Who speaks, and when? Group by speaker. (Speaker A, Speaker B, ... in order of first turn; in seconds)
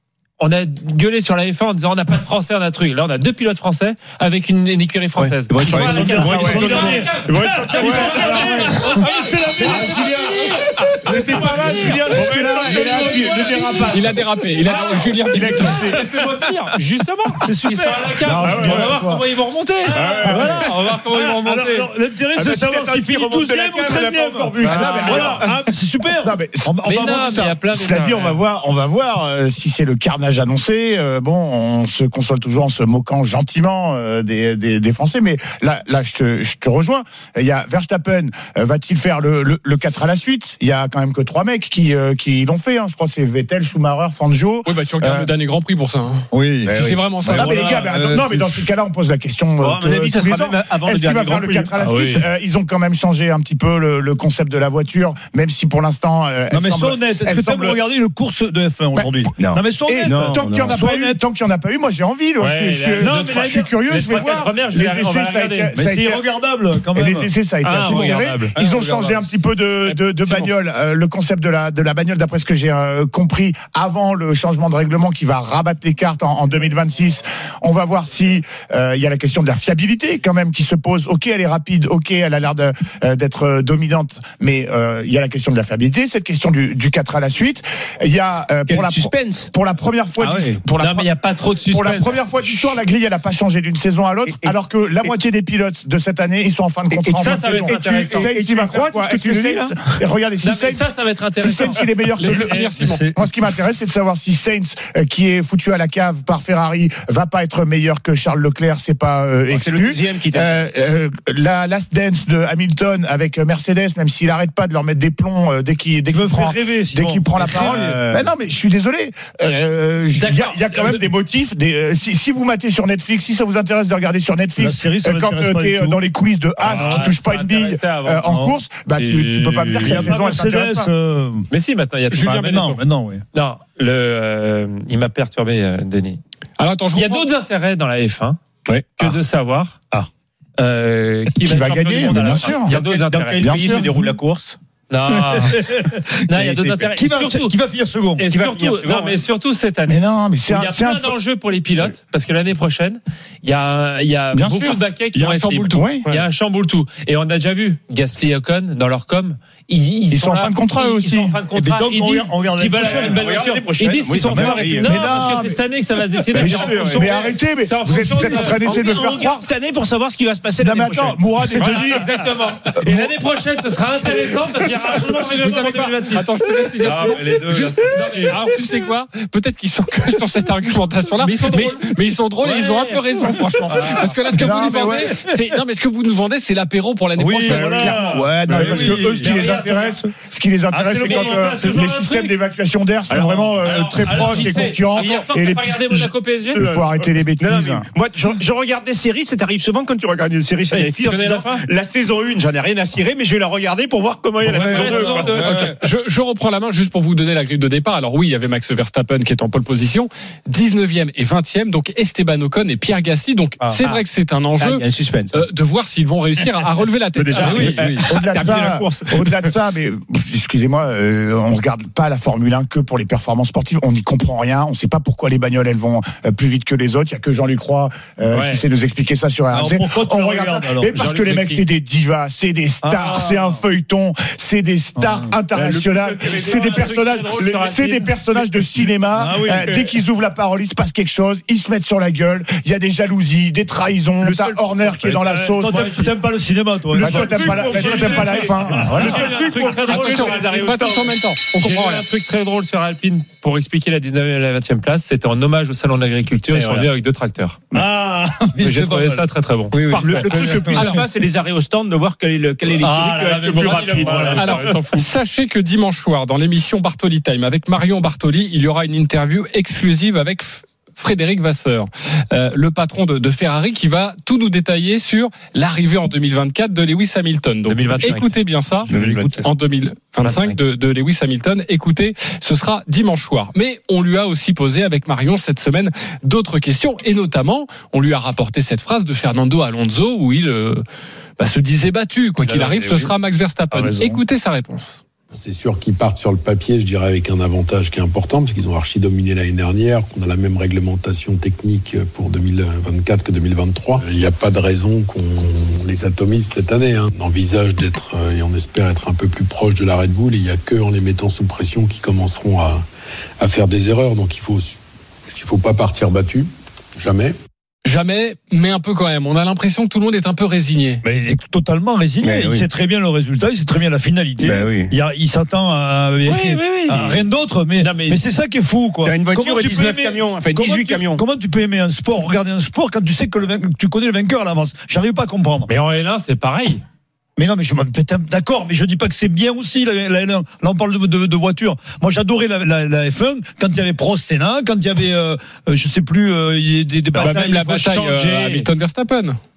Speaker A: 0.4-14.1, 14.7-21.9, 24.7-25.4, 26.9-28.4, 62.4-65.7, 67.6-69.3, 90.8-92.7, 97.1-98.3, 100.4-101.8, 120.1-121.1, 126.6-128.4, 128.9-130.0, 131.5-132.7, 133.3-136.2, 136.9-138.4, 139.0-139.8, 140.6-143.7, 144.9-145.7, 146.2-147.5, 148.2-168.8, 171.6-176.3, 176.8-178.3, 181.2-184.1, 189.3-189.9, 191.0-192.3, 194.0-196.6, 200.7-201.6, 204.5-205.6, 230.9-231.6, 235.5-238.4, 245.6-246.1, 247.0-257.6, 258.6-260.8, 262.7-264.8, 277.6-278.3, 280.2-280.6, 326.2-327.2, 327.8-328.2, 335.7-336.8, 347.2-348.7
Speaker B: 5.2-8.7, 12.5-13.0, 22.3-25.4, 46.7-47.9, 49.6-52.2, 59.4-61.2, 88.7-89.5, 90.2-90.6, 94.3-95.1, 96.9-99.8, 109.5-110.7, 117.3-118.3, 138.7-139.1, 142.7-144.6, 148.3-149.2, 162.8-165.0, 166.3-167.1, 168.5-171.3, 187.5-189.7, 193.6-194.1, 199.7-201.5, 204.5-205.7, 214.6-215.3, 217.2-218.9, 259.9-264.8, 278.9-279.4, 322.2-322.6, 324.4-324.9, 329.0-331.2
Speaker C: 5.6-8.0, 9.6-9.8, 11.0-13.3, 17.4-19.2, 20.2-27.3, 46.3-48.6, 56.5-60.9, 63.0-63.6, 65.7-68.2, 102.2-103.3, 116.1-118.0, 124.6-126.0, 126.6-127.1, 128.2-128.5, 129.6-131.5, 132.2-133.2, 145.3-148.3, 161.5-163.3, 164.2-165.6, 184.6-185.3, 187.2-190.0, 190.7-191.8, 204.5-204.9, 217.4-218.1, 229.5-231.0, 232.8-233.5, 235.0-235.3, 239.1-239.9, 245.5-249.1, 257.7-260.9, 278.9-279.5, 321.0-335.7, 337.4-347.7
Speaker D: 5.7-10.4, 11.0-16.2, 18.2-19.2, 19.9-20.7, 24.5-25.5, 26.2-45.3, 47.3-57.8, 58.9-59.3, 59.8-66.2, 66.9-91.1, 91.6-130.9, 141.4-142.8, 143.4-144.1, 149.9-151.1, 154.3-154.8, 155.7-156.0, 160.1-161.4, 166.3-169.4, 170.6-172.2, 172.8-173.1, 184.3-185.1, 188.5-197.9, 217.8-246.1, 246.9-249.3
Speaker E: 13.9-15.9, 44.6-47.7, 51.8-52.2, 69.8-70.5, 102.2-103.0, 132.1-132.8, 136.6-137.2, 155.1-156.2, 175.4-188.1, 204.5-217.8, 228.3-228.6, 248.9-249.2, 249.9-252.0, 260.5-261.0, 264.2-290.8, 291.4-295.0, 317.8-321.0, 347.1-349.4
Speaker F: 193.6-194.4, 197.4-205.4
Speaker G: 295.3-312.8, 313.4-314.8, 315.3-317.3